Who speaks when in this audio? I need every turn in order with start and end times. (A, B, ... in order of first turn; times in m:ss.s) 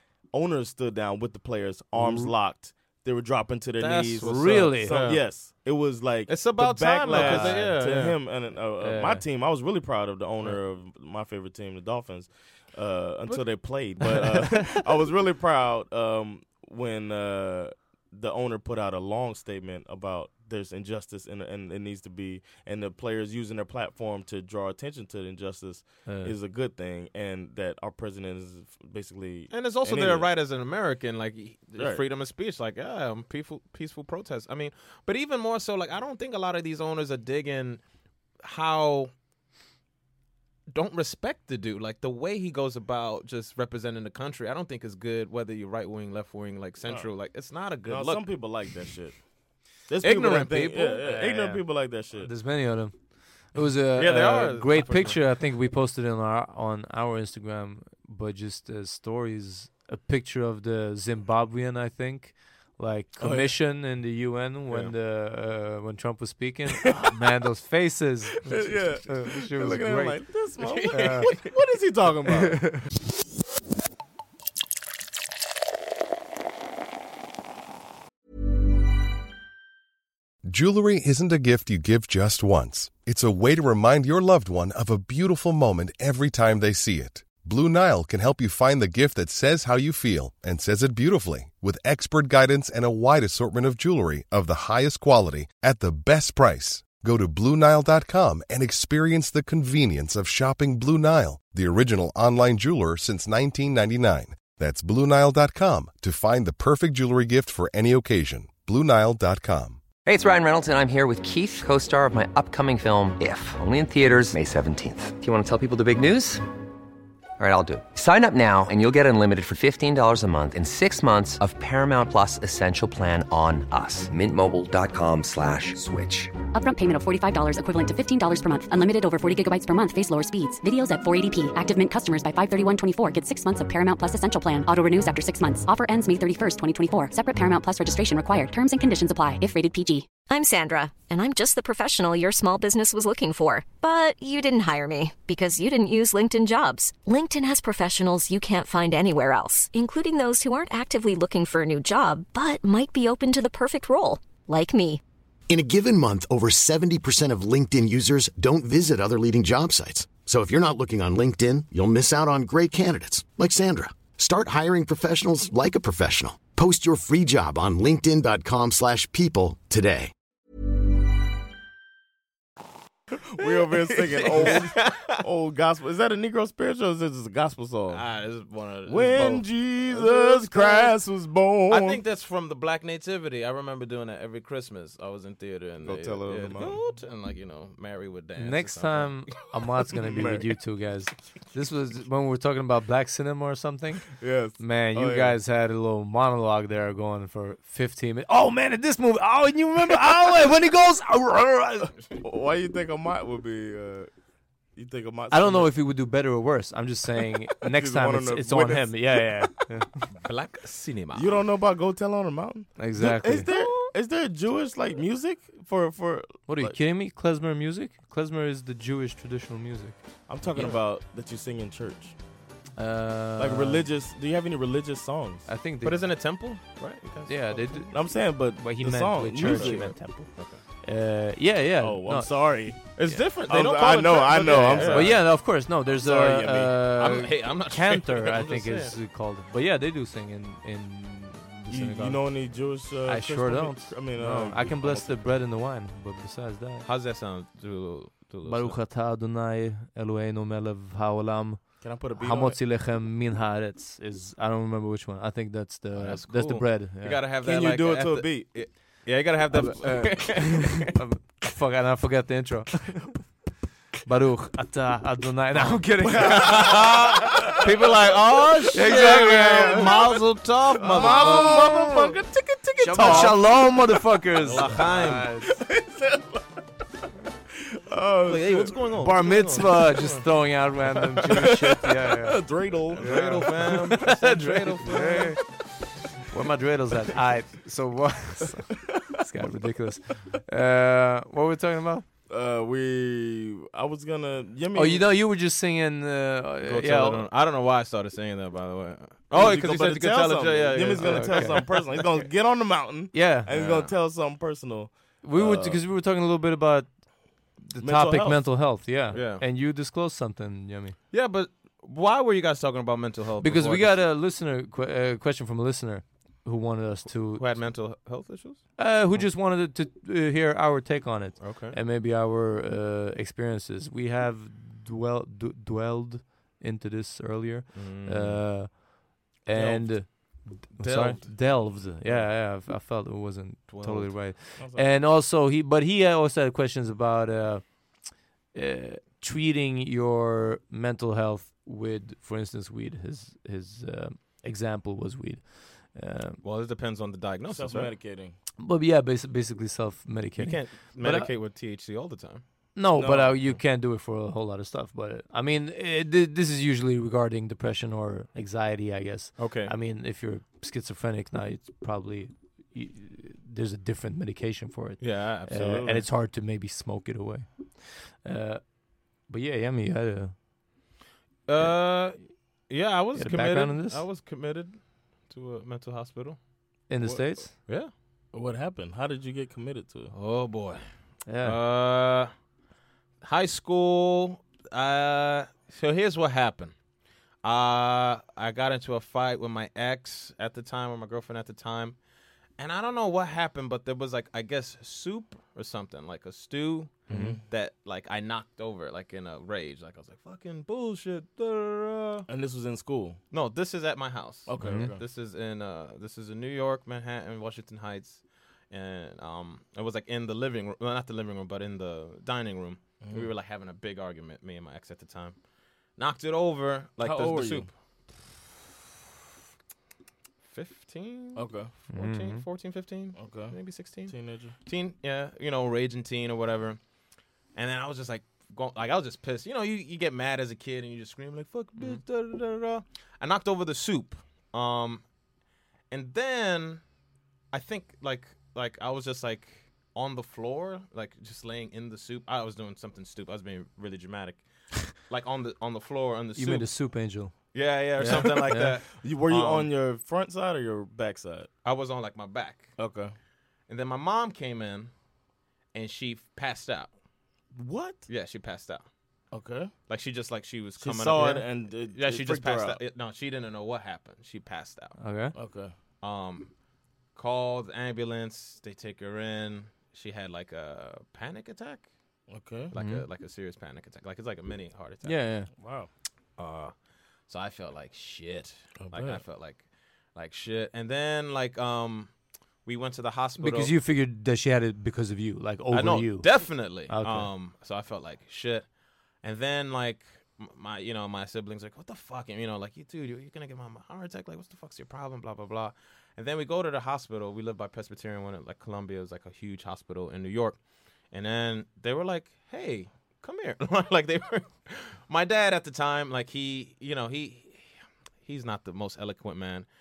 0:00.3-0:30.3 A
0:02.0-0:02.3 B
0:03.8-0:05.2 C
0:04.2-0:05.0 B
0:06.3-0:08.2 C
0:07.1-0:07.7 B
0:08.8-0:09.2 B
0:14.4-0:14.7 B
0:26.1-0:26.4 B
0:29.5-0:37.8 C
0:31.8-0:32.0 A
0:38.4-0:39.1 C
0:40.7-0:48.3 C
0:47.9-0:49.2 A
0:49.9-0:52.3 A
0:50.0-0:51.1 C
0:51.0-0:53.0 B
0:53.5-1:10.2 B
0:54.0-0:55.2 C
1:03.2-1:03.5 A
1:08.4-1:12.8 A
1:10.6-1:11.5 C
1:10.9-1:11.4 B
1:20.4-1:49.8 D
1:50.0-1:56.4 E
1:57.4-2:06.4 E
2:06.5-2:20.1 F
2:20.3-2:35.0 G
2:35.5-2:50.1 H
2:53.2-2:58.0 A
2:53.5-2:55.2 C
2:57.9-3:01.0 C
2:58.8-3:02.0 A
3:01.7-3:09.4 C
3:05.8-3:06.8 A
3:08.4-3:21.9 B
3:10.0-3:10.5 A
3:14.1-3:15.4 A
3:22.2-3:24.1 A
3:24.8-3:25.7 A
3:25.3-3:30.0 B
3:27.7-3:29.5 A
3:30.1-3:31.4 C
3:31.1-3:36.8 A
3:32.8-3:33.8 B
3:36.5-3:40.0 B
3:40.3-3:42.2 A
3:40.5-3:40.8 C
3:42.8-3:43.9 B
3:43.4-3:45.5 A
3:45.5-3:46.0 B
3:45.8-3:47.9 C
3:47.3-3:50.3 B
3:47.9-3:50.0 A
3:49.4-3:50.6 C
3:50.8-3:53.2 B
3:51.8-3:52.9 A
3:53.0-3:55.2 C
3:53.4-3:56.8 A
3:54.7-4:02.3 B
3:56.9-3:59.0 C
4:01.7-4:05.4 A
4:03.0-4:06.9 B
4:06.8-4:08.8 C
4:08.4-4:17.2 B
4:11.8-4:12.6 A
4:16.0-4:20.9 C
4:17.4-4:18.6 A
4:19.5-4:20.5 A
4:19.5-4:23.2 B
4:24.0-4:27.5 B
4:26.0-4:27.7 A
4:26.2-4:32.1 C
4:28.7-4:30.0 B
4:29.3-4:30.2 A
4:30.8-4:34.0 A
4:31.0-4:32.0 B
4:32.8-4:35.6 B
4:32.9-4:33.4 C
4:34.4-4:35.4 C
4:35.5-4:36.4 A
4:37.6-4:38.8 A
4:38.3-4:40.2 C
4:39.0-4:45.4 B
4:41.3-4:43.8 A
4:43.0-4:45.4 C
4:46.3-4:52.1 B
4:48.9-4:49.2 A
4:52.3-4:55.1 A
4:54.7-4:57.3 B
4:56.6-5:01.8 C
4:59.3-5:05.8 A
5:01.0-5:01.7 B
5:03.1-5:03.5 B
5:03.5-5:03.9 C
5:05.2-5:07.0 B
5:07.6-5:11.0 B
5:07.8-5:08.6 A
5:09.1-5:09.4 C
5:11.1-5:14.0 C
5:13.4-5:17.7 B
5:17.4-5:19.3 C
5:18.8-5:28.9 B
5:21.4-5:21.8 C
5:27.7-5:28.4 C
5:29.4-5:46.4 B
5:29.6-5:29.8 C
5:30.7-5:32.2 C
5:33.7-5:34.3 C
5:34.6-5:35.0 A
5:46.4-5:47.9 C
5:47.5-5:48.4 A
5:48.6-5:51.3 B
5:50.4-5:52.4 C
5:52.8-6:10.3 B
5:53.0-5:53.5 A
5:59.4-5:59.7 C
6:05.0-6:06.0 C
6:11.5-6:12.2 C
6:12.7-6:14.8 C
6:13.2-6:14.0 B
6:15.3-6:16.4 C
6:16.9-6:17.5 B
6:17.0-6:17.4 A
6:17.7-6:17.9 C
6:18.3-6:20.1 A
6:20.1-6:20.8 C
6:21.3-6:21.6 B
6:21.4-6:22.3 C
6:23.2-6:26.8 C
6:27.4-6:32.0 C
6:32.6-6:42.3 C
6:37.1-6:37.4 A
6:37.1-6:37.4 B
6:42.3-6:43.2 A
6:43.3-6:55.4 C
6:44.5-6:45.0 A
6:44.6-6:45.0 B
6:53.0-6:53.3 A
6:56.0-6:57.7 C
6:57.0-6:57.7 A
7:00.4-7:06.8 C
7:01.4-7:01.7 A
7:01.9-7:02.4 B
7:03.2-7:04.6 A
7:07.6-7:15.0 C
7:15.9-7:16.8 C
7:17.5-7:24.5 C
7:25.0-7:26.7 C
7:26.4-7:28.8 B
7:27.5-7:29.7 C
7:28.0-7:31.5 A
7:31.6-7:32.7 C
7:32.8-7:33.2 A
7:33.7-7:34.9 C
7:35.7-7:36.9 C
7:37.6-7:38.1 A
7:38.1-7:38.9 C
7:39.3-7:39.7 A
7:39.9-7:45.0 C
7:40.8-7:42.8 A
7:45.0-7:45.4 B
7:45.4-7:45.7 A
7:46.0-7:46.5 C
7:47.2-7:51.9 C
7:52.3-7:52.7 A
7:52.7-7:55.2 C
7:52.7-7:53.0 B
7:55.0-7:55.5 B
7:55.5-7:55.9 A
7:56.4-7:56.7 C
7:57.3-7:59.6 C
7:58.8-7:59.2 A
8:00.2-8:02.1 C
8:02.6-8:03.7 C
8:03.4-8:06.3 B
8:05.7-8:08.7 C
8:06.9-8:07.3 B
8:09.2-8:20.6 C
8:21.1-8:27.7 C
8:28.2-8:29.7 C